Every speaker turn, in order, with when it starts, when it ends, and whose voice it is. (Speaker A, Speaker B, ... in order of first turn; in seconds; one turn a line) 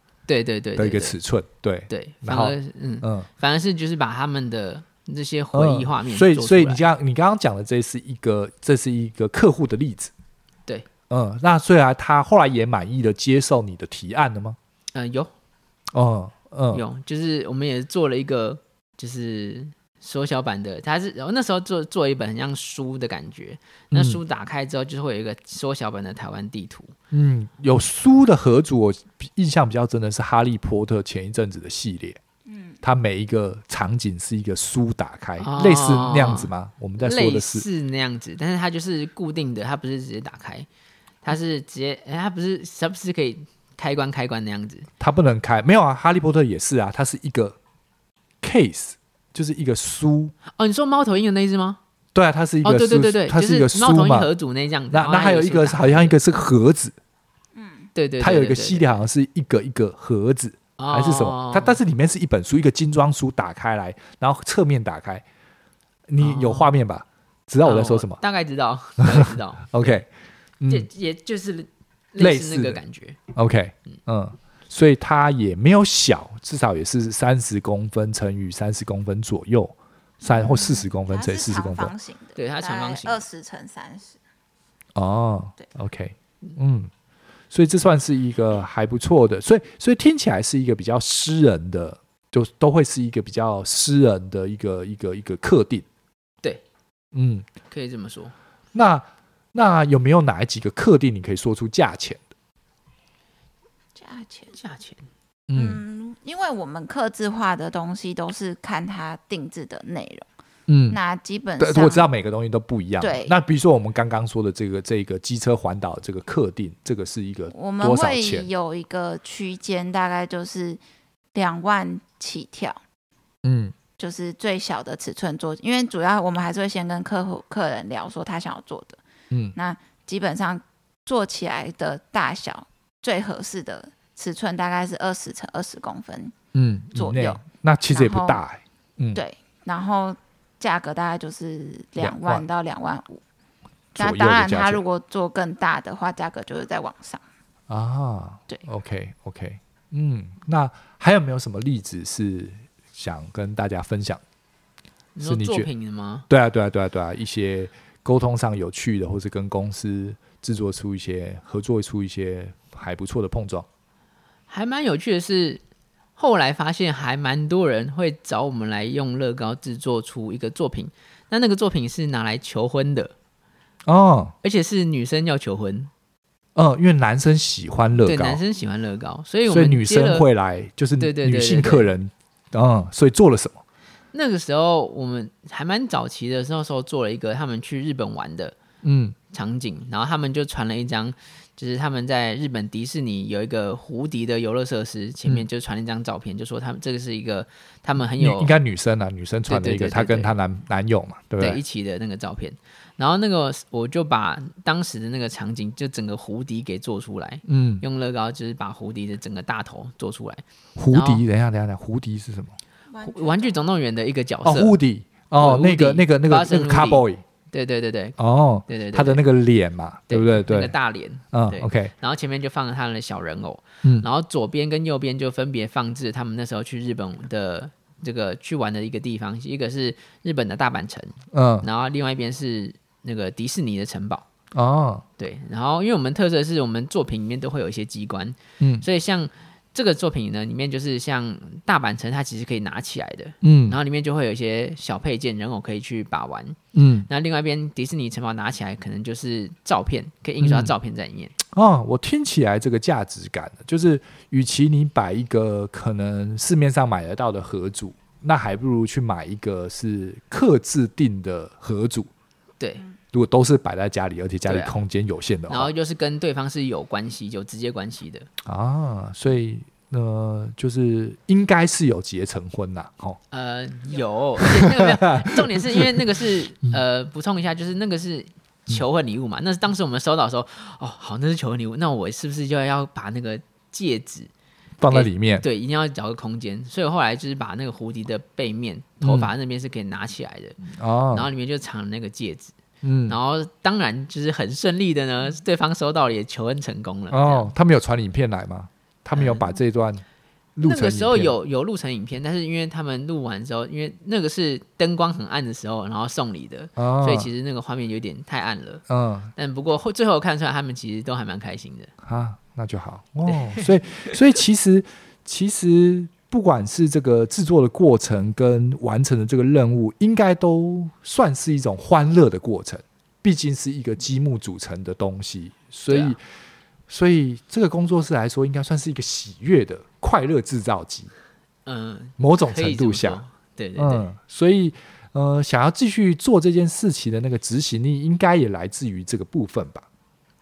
Speaker A: 0.3-1.2
Speaker B: 0.8-3.3
Speaker A: 1.9-6.8
Speaker B: 5.5-10.1
Speaker B: 11.1-14.6
Speaker A: 14.9-15.3
Speaker B: 15.9-16.8
Speaker A: 16.7-26.9
Speaker B: 23.9-24.2
Speaker B: 27.1-32.2
Speaker C: 32.5-32.8
Speaker B: 32.8-37.7
Speaker A: 35.4-40.7
Speaker A: 41.2-44.9
Speaker B: 45.0-47.6
Speaker B: 48.4-50.3
Speaker A: 50.6-51.8
Speaker B: 52.1-54.3
Speaker A: 52.6-56.2
Speaker B: 54.9-57.0
Speaker C: 57.6-57.9
Speaker A: 58.0-58.9
Speaker B: 58.2-65.2
Speaker A: 60.8-61.8
Speaker B: 66.1-68.2
Speaker A: 66.2-66.7
Speaker A: 67.6-70.0
Speaker B: 69.0-70.1
Speaker B: 70.6-70.9
Speaker A: 70.7-73.2
Speaker B: 72.2-72.8
Speaker B: 73.3-81.9
Speaker C: 80.2-84.2
Speaker A: 82.4-83.2
Speaker B: 85.0-86.9
Speaker B: 87.5-95.8
Speaker B: 97.1-97.5
Speaker A: 97.7-98.3
Speaker B: 98.7-102.2
Speaker C: 104.0-104.5
Speaker A: 104.5-105.0
Speaker B: 105.5-105.8
Speaker C: 105.5-110.3
Speaker B: 110.7-111.0
Speaker C: 110.9-112.1
Speaker B: 111.6-118.5
Speaker C: 113.0-113.3
Speaker C: 117.5-120.8
Speaker C: 121.3-122.8
Speaker B: 123.5-123.7
Speaker C: 124.0-129.0
Speaker C: 129.6-136.3
Speaker B: 136.5-139.2
Speaker C: 136.9-137.4
Speaker C: 137.9-138.4
Speaker C: 139.2-143.2
Speaker B: 142.0-142.4
Speaker B: 143.9-144.8
Speaker C: 144.0-147.2
Speaker B: 147.7-154.2
Speaker A: 155.2-156.3
Speaker B: 155.2-155.7
Speaker B: 156.3-163.7
Speaker A: 164.5-165.6
Speaker A: 166.2-173.1
Speaker B: 173.9-174.3
Speaker A: 174.4-175.9
Speaker B: 176.6-178.4
Speaker A: 178.0-180.3
Speaker B: 179.5-183.6
Speaker A: 181.0-181.9
Speaker A: 184.1-188.6
Speaker B: 188.8-189.2
Speaker A: 189.3-198.5
Speaker B: 198.2-201.6
Speaker A: 199.5-200.3
Speaker A: 201.4-211.2
Speaker B: 207.5-207.8
Speaker B: 210.8-212.6
Speaker C: 212.9-213.5
Speaker A: 213.0-214.8
Speaker B: 214.4-217.2
Speaker A: 215.4-219.2
Speaker B: 218.2-220.7
Speaker A: 220.1-234.3
Speaker B: 221.3-221.9
Speaker B: 231.3-231.7
Speaker B: 234.5-235.0
Speaker A: 235.2-251.3
Speaker B: 238.6-238.8
Speaker B: 243.4-243.8
Speaker B: 246.7-247.1
Speaker B: 250.4-250.7
Speaker B: 251.5-262.1
Speaker A: 262.6-262.9
Speaker B: 263.1-265.7
Speaker A: 264.5-264.8
Speaker A: 265.5-268.3
Speaker B: 268.4-273.2
Speaker A: 273.3-284.3
Speaker B: 274.4-276.0
Speaker B: 284.8-285.4
Speaker A: 284.9-290.6
Speaker B: 289.0-289.3
Speaker B: 290.7-291.3
Speaker A: 291.1-292.5
Speaker B: 292.8-293.2
Speaker A: 293.1-297.5
Speaker B: 297.1-300.0
Speaker A: 299.1-299.5
Speaker B: 300.6-301.3
Speaker A: 300.6-308.8
Speaker B: 306.8-307.3
Speaker B: 308.9-309.3
Speaker A: 309.4-311.9
Speaker B: 312.0-326.2
Speaker A: 313.3-314.1
Speaker A: 325.9-326.2
Speaker B: 326.9-331.1
Speaker A: 331.7-334.0
Speaker B: 332.2-333.2
Speaker B: 333.8-339.9